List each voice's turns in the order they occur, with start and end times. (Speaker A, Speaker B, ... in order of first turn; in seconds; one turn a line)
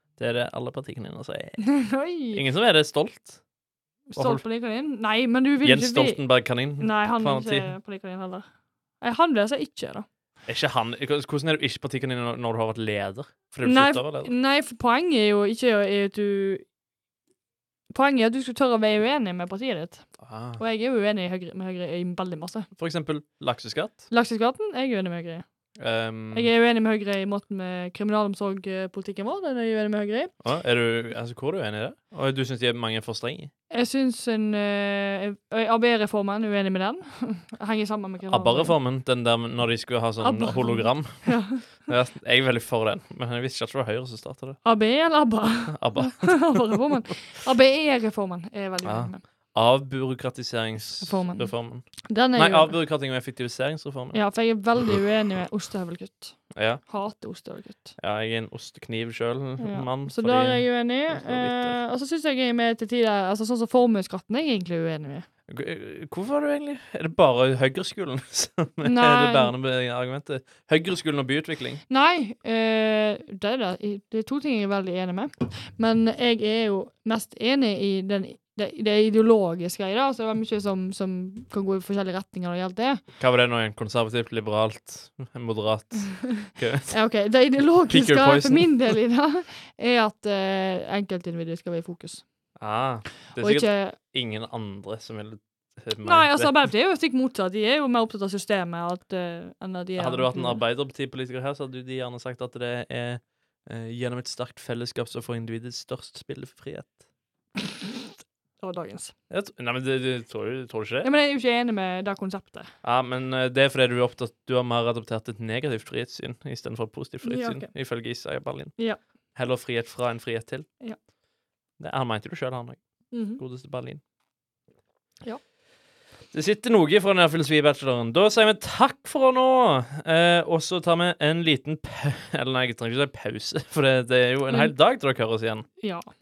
Speaker A: 0.2-1.7
Speaker B: 1.6-2.4
Speaker A: 2.3-3.4
Speaker B: 4.1-6.2
Speaker A: 4.2-4.4
Speaker A: 5.6-7.7
Speaker B: 6.8-8.4
Speaker B: 9.0-10.1
Speaker A: 10.5-14.3
Speaker B: 13.6-16.6
Speaker B: 17.9-22.7
Speaker A: 20.2-20.6
Speaker A: 22.8-24.0
Speaker B: 24.1-25.4
Speaker A: 25.8-26.5
Speaker B: 26.3-30.3
Speaker A: 30.4-33.5
Speaker B: 33.7-38.8
Speaker A: 38.3-44.6
Speaker B: 40.2-41.6
Speaker B: 44.6-49.2
Speaker A: 45.7-46.8
Speaker A: 48.8-54.2
Speaker B: 51.0-51.5
Speaker B: 52.1-52.8
Speaker B: 54.1-58.0
Speaker A: 56.5-56.8
Speaker A: 58.0-61.8
Speaker B: 59.6-65.3
Speaker A: 65.5-71.8
Speaker B: 68.8-69.5
Speaker B: 71.9-83.0
Speaker A: 83.2-86.9
Speaker B: 86.4-92.2
Speaker A: 87.9-88.7
Speaker A: 92.6-96.7
Speaker B: 93.4-94.0
Speaker B: 96.0-100.6
Speaker A: 100.0-107.0
Speaker B: 107.6-108.0
Speaker B: 108.6-109.1
Speaker A: 109.3-111.1
Speaker B: 111.0-112.7
Speaker A: 112.8-118.8
Speaker B: 117.2-117.7
Speaker A: 119.3-120.7
Speaker A: 121.8-124.0
Speaker B: 123.1-123.4
Speaker A: 126.3-135.7
Speaker B: 135.8-136.1